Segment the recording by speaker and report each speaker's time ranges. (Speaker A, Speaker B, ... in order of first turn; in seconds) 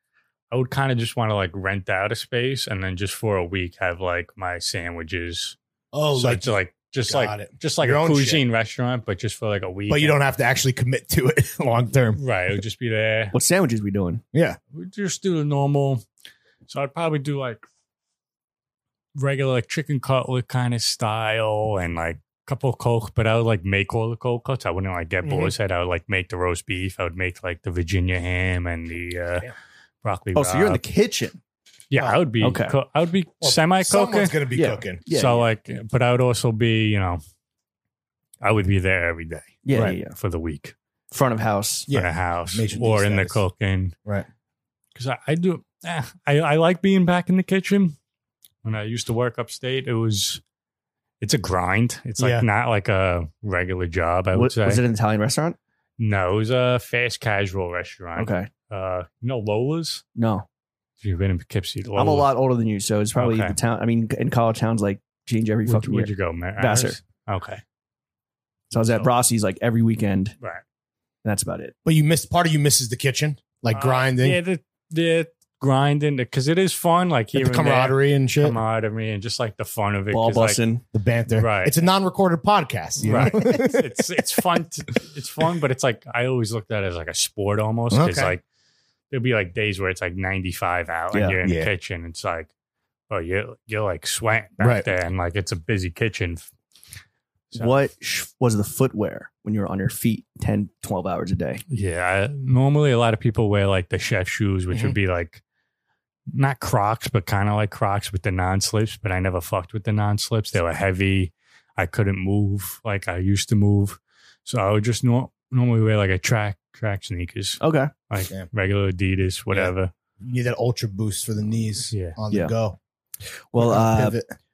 Speaker A: 0.5-5.6, 6.1-10.2, 12.2-13.3, 14.7-16.0, 16.7-17.6, 19.1-29.5, 30.0-30.8, 31.9-34.4, 35.1-37.2, 38.4-40.8, 41.9-43.9, 45.0-48.0, 48.6-50.4, 51.2-54.8, 56.0-60.0, 61.0-62.3, 63.2-63.6, 65.7-67.6, 73.7-80.6, 81.4-81.8, 83.0-88.4, 89.1-92.5, 93.1-96.5, 101.7-105.4, 106.3-119.9
Speaker B: 5.9-6.5, 7.1-8.4, 9.9-12.2, 25.2-25.5, 31.9-32.2, 33.4-35.0, 41.9-43.4, 52.2-52.5, 71.8-74.4, 77.3-78.6, 80.9-83.9, 87.9-88.3, 91.4-91.7, 94.6-94.9, 119.5-122.8, 123.6-124.3
Speaker C: 13.3-14.2, 30.3-31.4, 32.4-32.8, 34.5-35.5, 39.6-40.1, 41.1-41.9, 54.3-55.6, 58.2-58.5, 60.1-60.5, 62.0-67.0, 68.7-70.3, 71.2-71.7, 80.1-80.8, 97.5-101.6, 117.6-117.9, 123.5-124.2